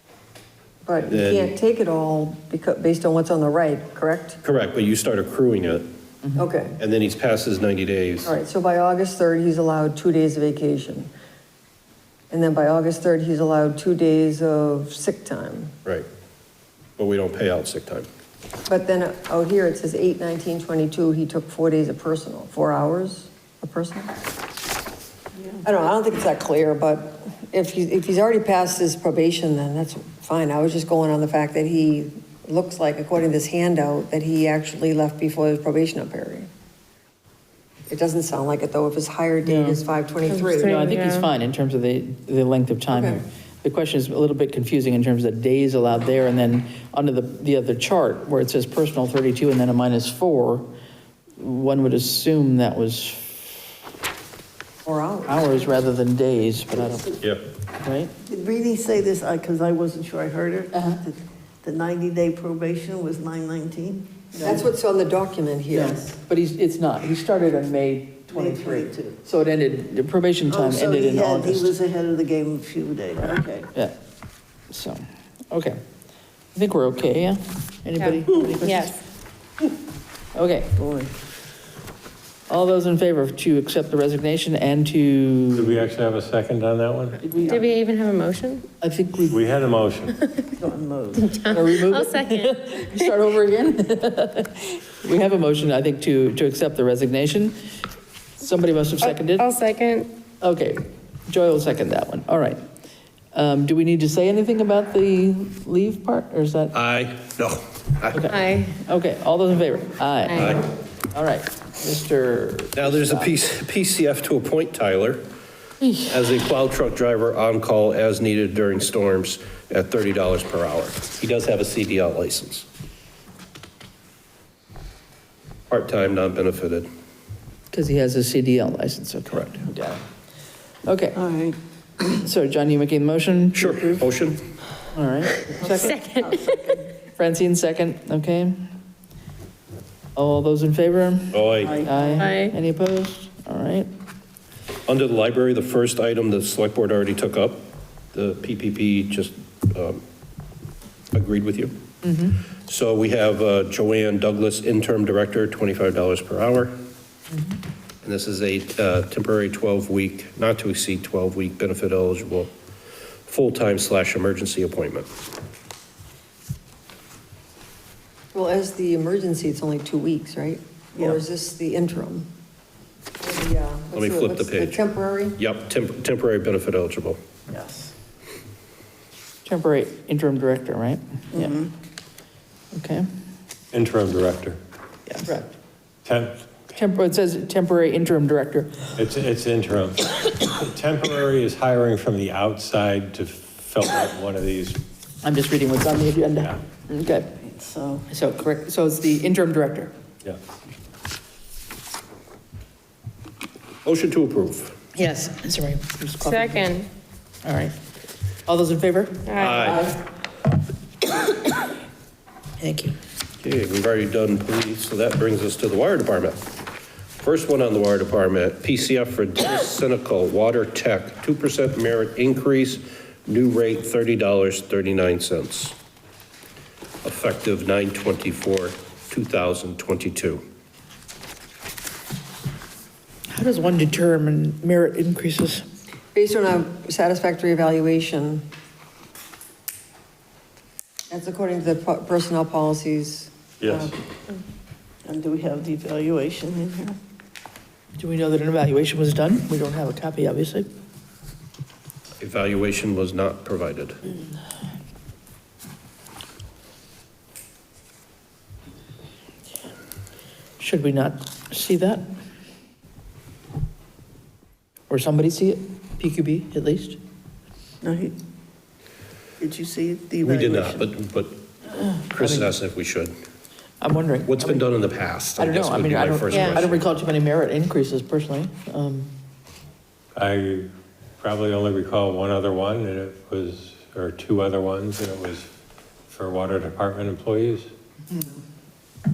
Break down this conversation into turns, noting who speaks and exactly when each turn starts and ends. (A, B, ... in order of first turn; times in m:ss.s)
0:00.8-0:04.4 A
0:01.1-0:01.5 B
0:04.4-0:05.9 B
0:06.4-0:06.8 A
0:06.8-0:08.3 B
0:08.3-0:11.1 A
0:12.3-0:15.7 A
0:17.0-0:18.1 B
0:18.7-0:24.1 A
0:25.6-0:36.5 A
0:37.9-0:40.8 A
0:39.4-0:39.8 C
0:40.3-0:41.3 D
0:40.6-0:50.7 C
0:42.9-0:43.2 A
0:51.4-0:53.7 C
0:54.9-0:55.7 A
0:55.3-0:57.2 C
0:57.8-0:58.1 C
0:58.2-1:04.7 E
1:00.7-1:01.0 C
1:04.4-1:04.6 C
1:04.4-1:06.0 A
1:05.7-1:11.7 C
1:08.3-1:09.2 E
1:10.5-1:13.7 E
1:14.7-1:15.8 C
1:16.6-1:19.0 C
1:18.0-1:19.0 D
1:20.4-1:20.7 C
1:20.8-1:21.1 E
1:22.5-1:25.8 C
1:25.6-1:27.2 F
1:27.3-1:27.6 E
1:27.3-1:27.7 C
1:27.5-1:28.6 D
1:28.8-1:29.4 C
1:29.3-1:30.2 F
1:30.6-1:31.4 E
1:31.3-1:33.1 D
1:31.4-1:37.6 C
1:38.4-1:39.5 C
1:39.0-1:40.1 D
1:40.4-1:42.6 C
1:43.3-1:46.7 C
1:46.7-1:48.3 B
1:48.1-1:50.6 C
1:48.3-1:48.8 D
1:50.3-1:50.6 D
1:50.4-1:50.6 B
1:51.1-1:53.3 C
1:52.8-1:55.2 B
1:56.0-2:02.7 B
2:05.7-2:06.9 B
2:07.7-2:10.0 C
2:10.9-2:11.2 C
2:11.2-2:12.0 E
2:12.1-2:14.1 C
2:13.6-2:14.4 B
2:14.9-2:16.1 C
2:15.6-2:16.8 E
2:15.8-2:16.6 D
2:17.2-2:18.6 C
2:20.2-2:23.9 C
2:21.3-2:21.8 B
2:21.6-2:22.2 E
2:22.2-2:22.6 D
2:24.9-2:27.6 B
2:28.1-2:30.0 B
2:31.1-2:31.7 B
2:32.0-2:32.4 C
2:32.6-2:36.8 B
2:38.0-2:42.5 B
2:43.3-2:45.1 B
2:48.3-2:52.3 A
2:51.0-2:51.2 E
2:53.2-2:55.4 A
2:53.9-2:54.8 B
2:55.4-2:57.2 B
2:57.5-2:57.9 E
2:59.4-3:01.6 C
3:01.3-3:01.7 E
3:02.8-3:03.1 C
3:03.7-3:04.6 F
3:05.1-3:05.5 C
3:06.0-3:06.6 F
3:06.7-3:08.9 C
3:09.0-3:14.8 F
3:15.2-3:17.3 C
3:17.4-3:18.0 E
3:18.1-3:19.9 C
3:23.8-3:24.8 B
3:25.0-3:26.8 C
3:26.2-3:26.9 D
3:27.4-3:27.7 C
3:28.5-3:30.0 C
3:29.3-3:29.7 D
3:29.4-3:29.9 B
3:32.6-3:32.9 C
3:33.4-3:36.4 B
3:37.2-3:45.8 B
3:47.0-3:50.4 B
3:53.3-3:55.6 C
3:56.1-3:58.4 A
4:01.1-4:04.0 A
4:03.6-4:03.9 F
4:05.1-4:07.0 E
4:08.0-4:10.7 C
4:12.2-4:14.0 B
4:20.6-4:22.1 C
4:24.9-4:27.0 C
4:27.8-4:28.2 E
4:29.4-4:30.9 E
4:30.2-4:31.4 B
4:32.1-4:33.1 B
4:32.2-4:32.5 C
4:33.8-4:34.7 C
4:34.3-4:36.9 B
4:35.4-4:39.1 C
4:36.3-4:36.6 D
4:40.2-4:45.5 F
4:46.1-4:47.7 F